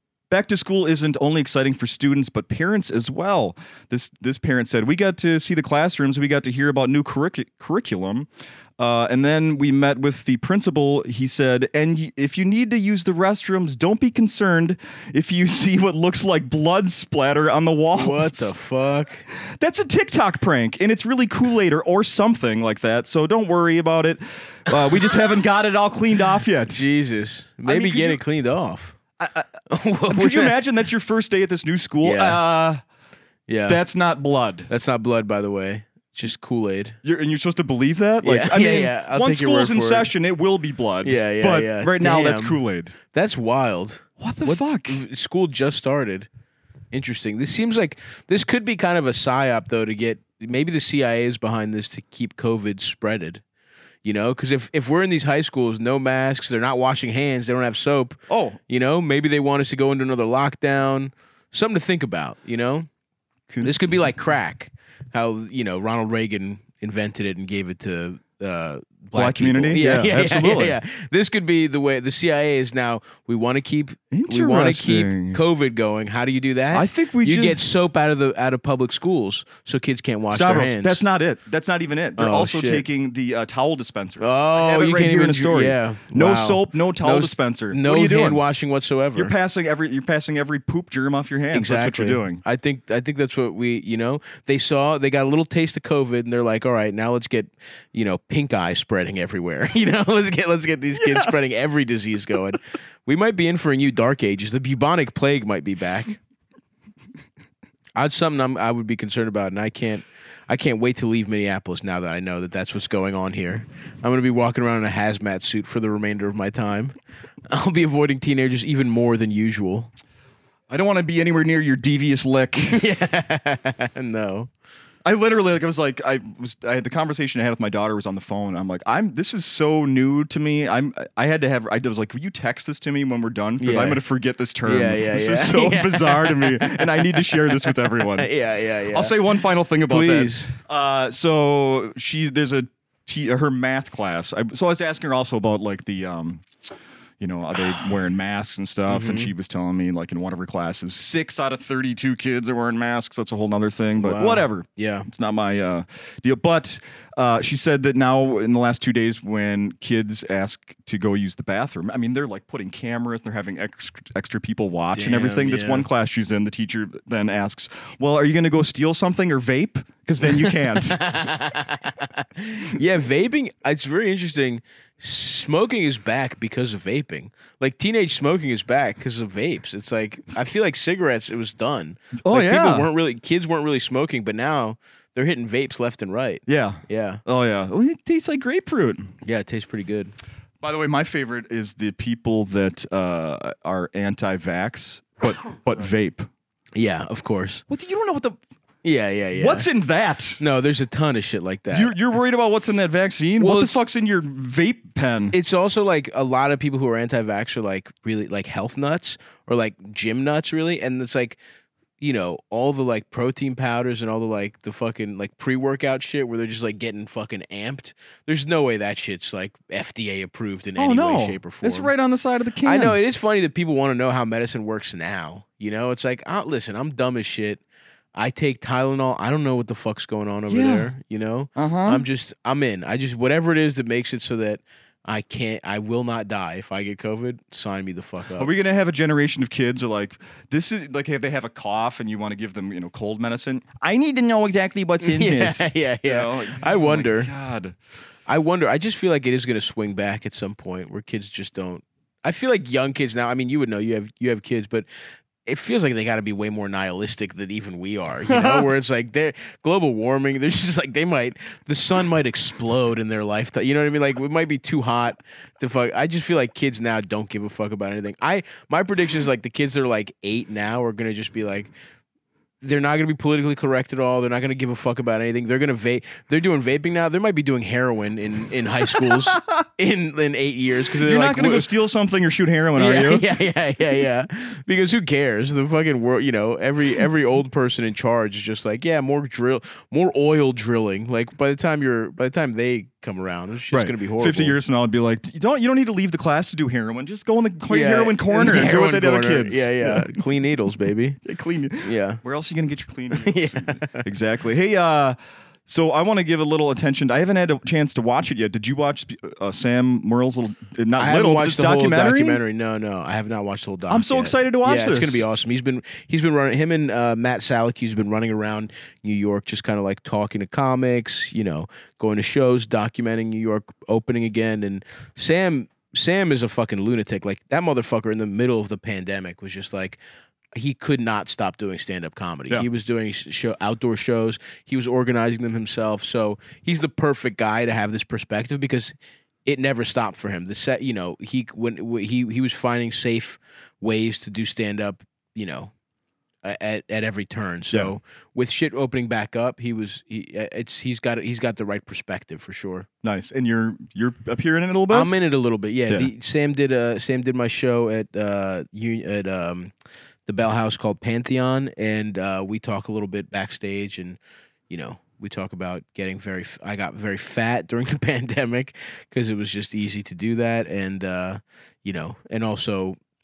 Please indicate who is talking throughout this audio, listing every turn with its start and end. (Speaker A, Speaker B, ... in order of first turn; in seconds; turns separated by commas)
Speaker A: 0.3-18.5, Speaker B: 17.9-19.3, Speaker A: 19.3-26.8, Speaker B: 26.7-29.0, Speaker A: 27.6-28.2, Speaker A: 29.2-32.8, Speaker B: 29.7-30.5, Speaker B: 32.0-32.4, Speaker B: 33.5-33.8, Speaker A: 33.7-34.7, Speaker B: 34.7-37.0, Speaker A: 37.0-42.9, Speaker B: 38.2-40.1, Speaker B: 41.0-46.3, Speaker A: 44.2-45.0, Speaker B: 46.9-53.4, Speaker B: 54.0-62.9, Speaker A: 58.3-58.6, Speaker A: 63.5-63.9, Speaker B: 63.6-81.0, Speaker A: 69.1-70.8, Speaker A: 74.1-75.4, Speaker A: 76.7-77.6, Speaker A: 80.3-88.4, Speaker B: 82.2-82.8, Speaker B: 84.2-89.3, Speaker A: 89.2-92.4, Speaker B: 91.5-106.2, Speaker A: 101.0-101.3, Speaker B: 108.0-116.9, Speaker B: 117.5-119.9, Speaker A: 120.7-122.8, Speaker B: 122.7-124.5, Speaker A: 125.0-138.3, Speaker B: 133.6-134.0, Speaker B: 134.7-139.2, Speaker A: 138.9-146.4, Speaker B: 139.9-140.5, Speaker A: 147.2-171.0, Speaker B: 148.9-149.3, Speaker B: 154.0-155.1, Speaker B: 164.9-165.9, Speaker B: 170.3-187.2, Speaker A: 182.2-182.9, Speaker A: 186.5-189.1, Speaker B: 189.2-190.1, Speaker A: 190.6-196.3, Speaker B: 196.8-197.6, Speaker A: 197.7-198.4, Speaker B: 198.8-199.7, Speaker A: 199.3-200.4, Speaker B: 200.4-201.9, Speaker A: 201.7-205.3, Speaker B: 203.4-203.8, Speaker B: 205.3-211.4, Speaker B: 212.0-221.9, Speaker A: 220.8-223.0, Speaker B: 222.6-227.6, Speaker B: 228.2-238.5, Speaker A: 230.5-230.9, Speaker A: 231.6-232.0, Speaker A: 238.4-247.8, Speaker B: 245.0-247.3, Speaker B: 248.3-254.9, Speaker B: 255.4-271.7, Speaker A: 258.3-258.7, Speaker B: 272.6-281.7, Speaker A: 279.1-279.4, Speaker A: 280.9-283.3, Speaker B: 282.8-294.6, Speaker A: 293.7-300.1, Speaker B: 297.7-301.2, Speaker A: 301.2-312.4, Speaker B: 301.8-302.2, Speaker B: 303.1-304.1, Speaker B: 311.0-330.0, Speaker A: 313.9-315.2, Speaker B: 330.6-338.9, Speaker B: 339.4-345.7, Speaker B: 346.4-352.9, Speaker A: 353.0-355.2, Speaker B: 354.9-359.7, Speaker B: 360.3-372.9